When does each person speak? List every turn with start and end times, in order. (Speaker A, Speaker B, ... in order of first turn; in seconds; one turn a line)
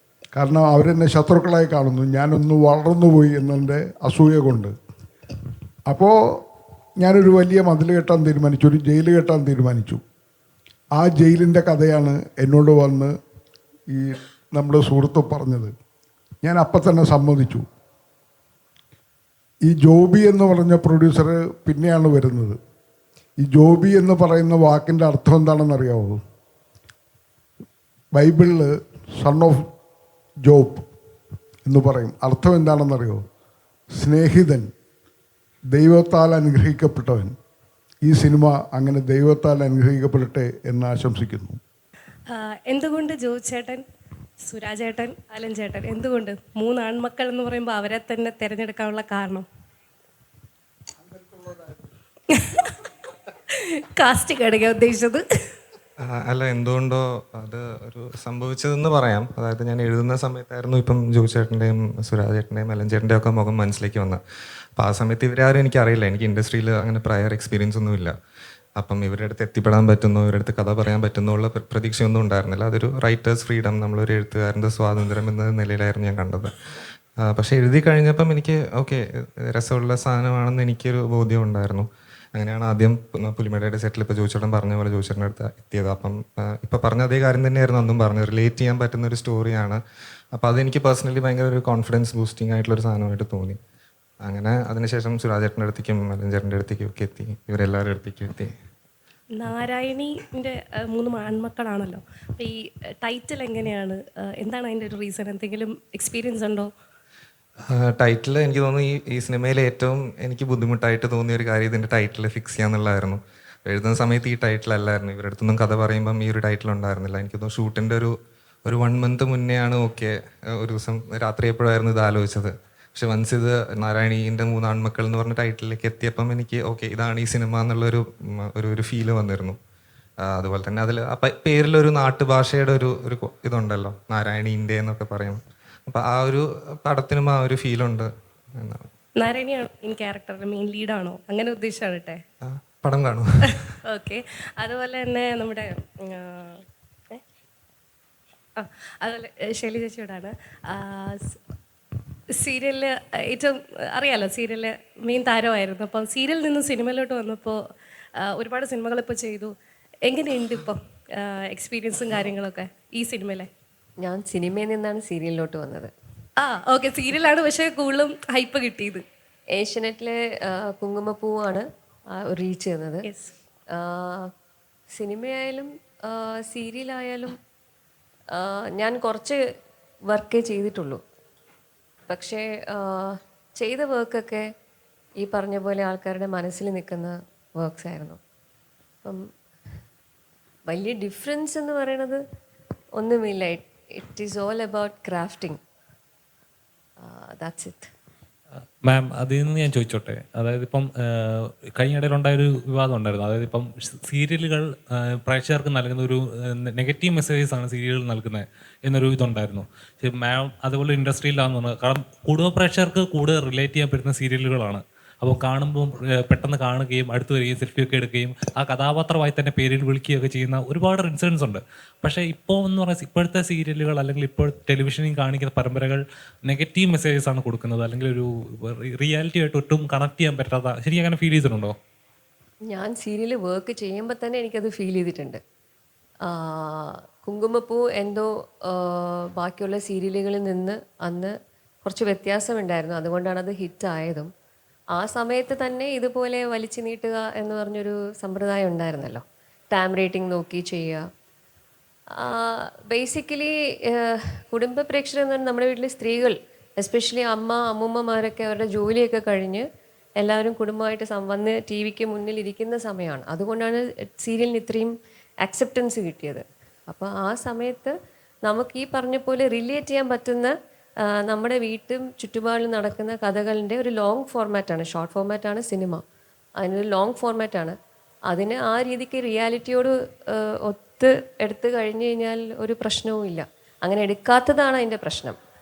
Speaker A: 0.3-4.7
Speaker A: 5.9-6.4
Speaker A: 7.0-10.0
Speaker A: 10.9-13.1
Speaker A: 13.9-15.7
Speaker A: 16.4-17.6
Speaker A: 19.6-22.6
Speaker A: 23.4-26.2
Speaker A: 28.1-29.6
Speaker A: 30.4-30.8
Speaker A: 31.6-33.2
Speaker A: 34.0-34.7
Speaker A: 35.7-37.3
Speaker A: 38.0-41.6
Speaker B: 42.3-43.8
Speaker B: 44.4-49.5
Speaker A: 51.3-51.7
Speaker B: 52.3-52.9
Speaker B: 53.5-55.2
Speaker C: 56.1-64.2
Speaker C: 64.8-68.1
Speaker C: 68.8-76.5
Speaker C: 77.2-89.8
Speaker C: 90.3-93.6
Speaker C: 94.2-98.5
Speaker B: 99.3-106.7
Speaker C: 107.8-118.1
Speaker C: 118.6-129.6
Speaker C: 130.2-138.8
Speaker B: 139.2-142.2
Speaker C: 142.4-143.7
Speaker B: 143.9-147.2
Speaker B: 148.6-151.4
Speaker B: 152.4-157.6
Speaker B: 158.2-159.5
Speaker B: 160.1-163.5
Speaker D: 164.0-165.9
Speaker B: 166.4-169.0
Speaker D: 169.5-171.6
Speaker D: 172.2-173.0
Speaker B: 173.1-173.3
Speaker D: 173.7-174.3
Speaker D: 175.0-177.3
Speaker D: 178.3-179.4
Speaker D: 180.1-181.0
Speaker D: 182.1-184.4
Speaker D: 185.2-188.2
Speaker D: 190.7-192.2
Speaker D: 193.0-195.6
Speaker D: 197.0-197.9
Speaker E: 198.9-231.7
Speaker D: 232.7-235.4
Speaker D: 236.3-241.3
Speaker D: 241.8-244.3
Speaker D: 244.9-251.1
Speaker D: 252.2-259.6
Speaker D: 260.2-264.9
Speaker D: 265.4-267.9
Speaker D: 268.4-270.5
Speaker D: 271.2-276.0
Speaker D: 276.6-277.7
Speaker D: 278.3-285.4